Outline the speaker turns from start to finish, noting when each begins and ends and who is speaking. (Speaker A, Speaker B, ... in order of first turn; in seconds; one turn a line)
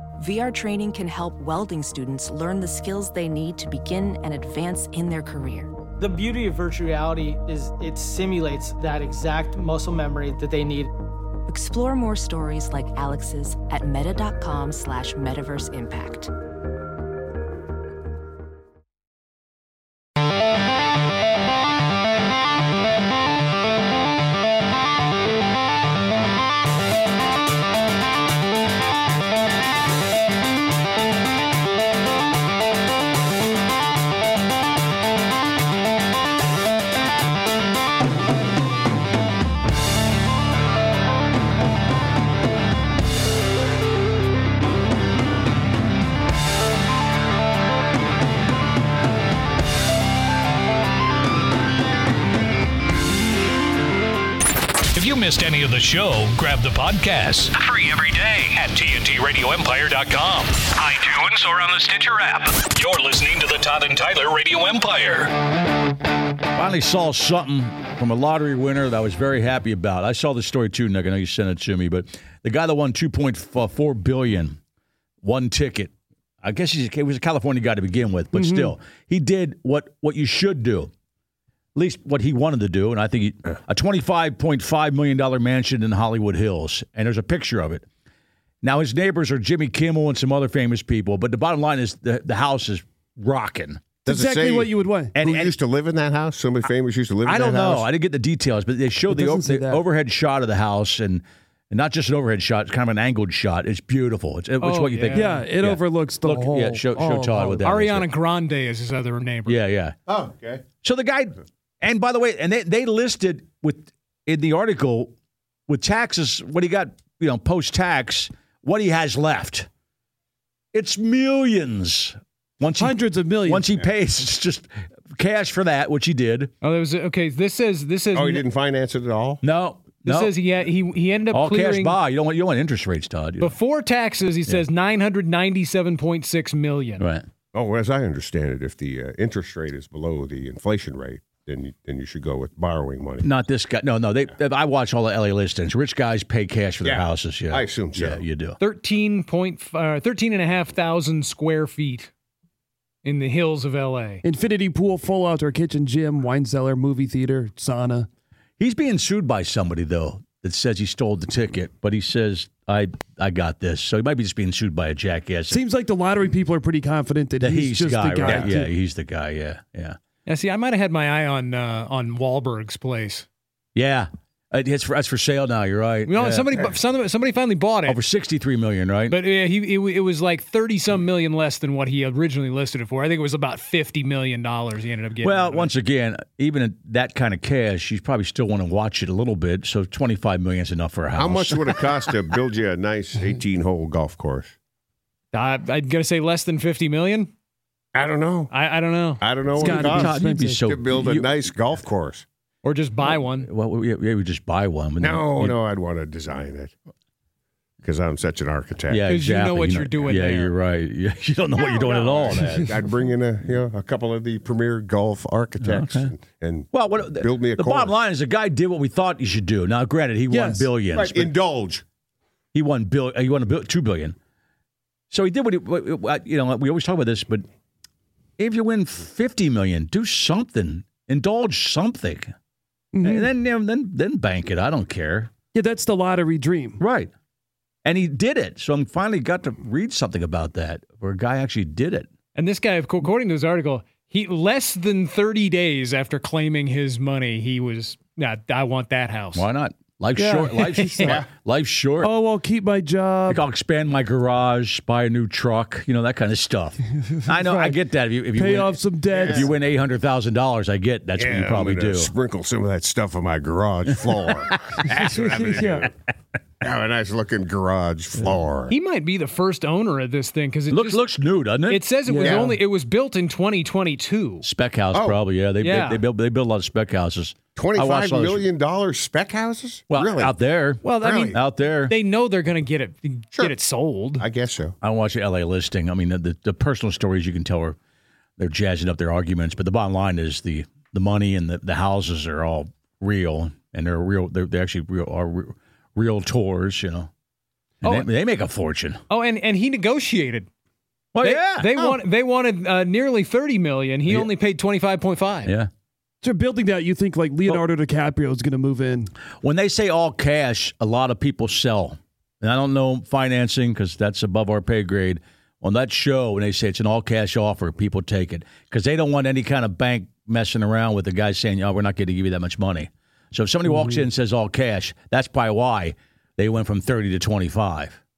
Speaker A: 0.2-5.7
Speaker B: 6.0-10.9
Speaker A: 11.5-16.3
Speaker C: 54.9-65.3
Speaker D: 66.5-74.6
Speaker D: 75.2-80.9
Speaker E: 78.3-78.7
Speaker D: 81.7-87.8
Speaker D: 88.6-93.8
Speaker E: 94.0-95.2
Speaker F: 94.0-97.9
Speaker D: 95.1-95.5
Speaker D: 97.2-108.1
Speaker E: 99.1-99.8
Speaker G: 104.6-105.3
Speaker E: 105.1-107.7
Speaker G: 107.6-109.6
Speaker D: 109.5-109.9
Speaker F: 110.1-110.6
Speaker D: 110.8-115.1
Speaker D: 115.7-119.7
Speaker D: 120.7-126.5
Speaker E: 122.8-123.7
Speaker G: 126.6-128.4
Speaker F: 128.1-129.4
Speaker D: 129.4-130.3
Speaker G: 130.1-132.0
Speaker D: 131.3-133.5
Speaker G: 133.4-137.1
Speaker D: 137.0-137.2
Speaker F: 137.5-143.3
Speaker D: 143.2-148.6
Speaker F: 146.8-148.2
Speaker G: 148.6-152.1
Speaker G: 153.0-154.2
Speaker E: 154.2-158.1
Speaker D: 158.6-165.6
Speaker E: 165.5-168.7
Speaker D: 167.4-170.0
Speaker F: 168.2-168.5
Speaker G: 170.2-173.2
Speaker D: 173.7-176.5
Speaker G: 176.1-178.0
Speaker D: 177.8-179.2
Speaker G: 179.1-185.7
Speaker D: 185.2-192.1
Speaker F: 191.1-194.5
Speaker G: 195.3-197.3
Speaker F: 197.9-198.5
Speaker G: 198.5-200.0
Speaker F: 199.2-202.2
Speaker E: 199.5-200.6
Speaker D: 199.7-201.4
Speaker G: 202.6-203.5
Speaker D: 203.0-205.6
Speaker F: 205.0-206.7
Speaker F: 207.8-209.1
Speaker D: 208.9-212.7
Speaker G: 209.1-210.5
Speaker G: 211.6-212.5
Speaker F: 212.5-217.9
Speaker D: 215.6-216.1
Speaker D: 216.7-221.3
Speaker E: 220.3-220.7
Speaker F: 220.9-221.8
Speaker D: 222.5-224.1
Speaker D: 225.1-227.4
Speaker D: 228.4-232.3
Speaker E: 232.9-233.3
Speaker D: 233.0-235.3
Speaker E: 235.5-236.8
Speaker D: 236.8-237.1
Speaker D: 237.8-242.1
Speaker G: 242.3-249.4
Speaker D: 249.3-252.1
Speaker E: 250.1-251.2
Speaker E: 252.0-253.4
Speaker D: 253.3-262.1
Speaker E: 257.0-257.8
Speaker E: 258.3-259.5
Speaker F: 259.1-259.5
Speaker F: 261.1-265.9
Speaker E: 264.9-265.9
Speaker F: 266.6-268.7
Speaker G: 268.7-271.0
Speaker D: 270.7-271.8
Speaker G: 271.6-274.4
Speaker E: 272.0-272.6
Speaker F: 272.2-272.5
Speaker D: 274.4-278.5
Speaker F: 274.9-275.2
Speaker G: 275.6-276.0
Speaker F: 277.5-280.4
Speaker D: 279.9-281.9
Speaker G: 280.8-281.4
Speaker F: 281.0-281.4
Speaker G: 281.9-284.2
Speaker F: 284.2-284.8
Speaker D: 284.8-287.8
Speaker D: 288.4-297.1
Speaker D: 297.8-299.0
Speaker G: 299.1-300.5
Speaker D: 301.1-302.0
Speaker G: 301.2-305.5
Speaker D: 305.4-305.7
Speaker E: 306.2-309.1
Speaker D: 309.4-328.0
Speaker E: 323.7-324.0